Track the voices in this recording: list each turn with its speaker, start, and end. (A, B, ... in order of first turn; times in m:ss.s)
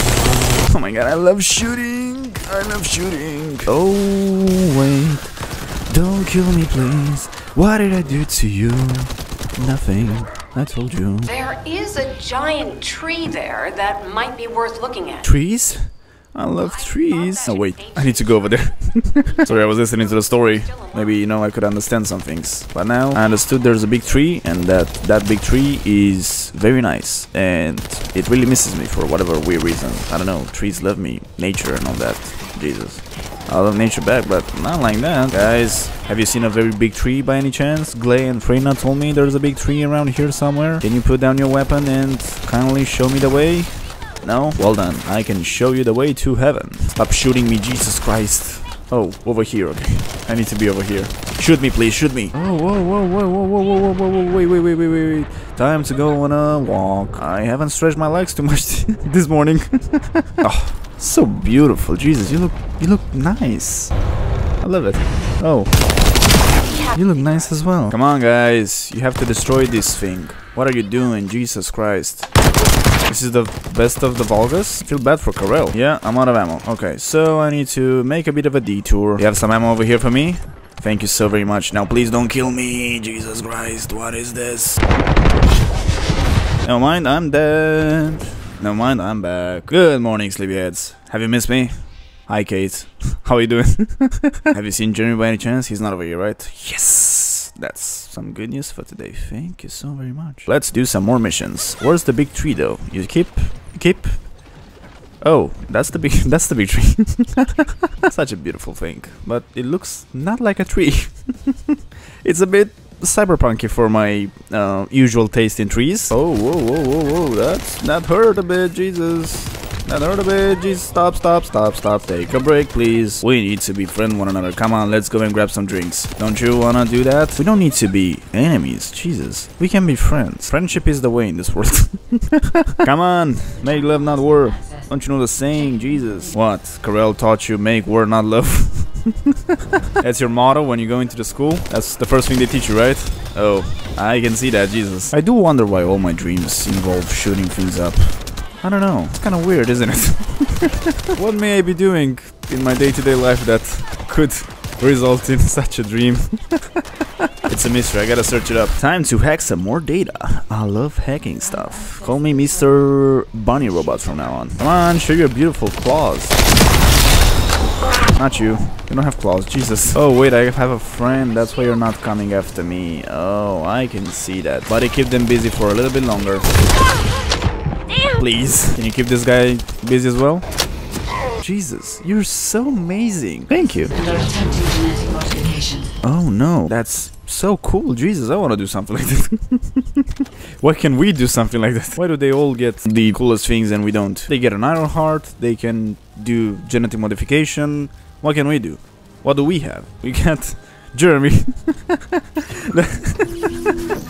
0:00.6-0:05.4 A
0:05.9-0:11.3 A
0:11.2-0:15.2 B
0:15.2-1:03.9 A
0:16.6-0:21.1 B
1:04.6-1:05.7 A
1:06.6-1:07.5 B
1:06.9-1:12.3 A
1:13.0-1:24.8 A
1:26.6-1:44.2 A
1:45.2-2:19.3 A
2:14.3-2:14.8 C
2:20.0-2:36.8 A
2:37.4-2:46.4 A
2:41.6-2:42.4 C
2:48.1-2:56.8 A
2:58.1-3:00.5 A
3:01.4-3:04.0 A
3:03.9-3:05.9 C
3:06.0-3:10.0 A
3:10.6-3:23.7 A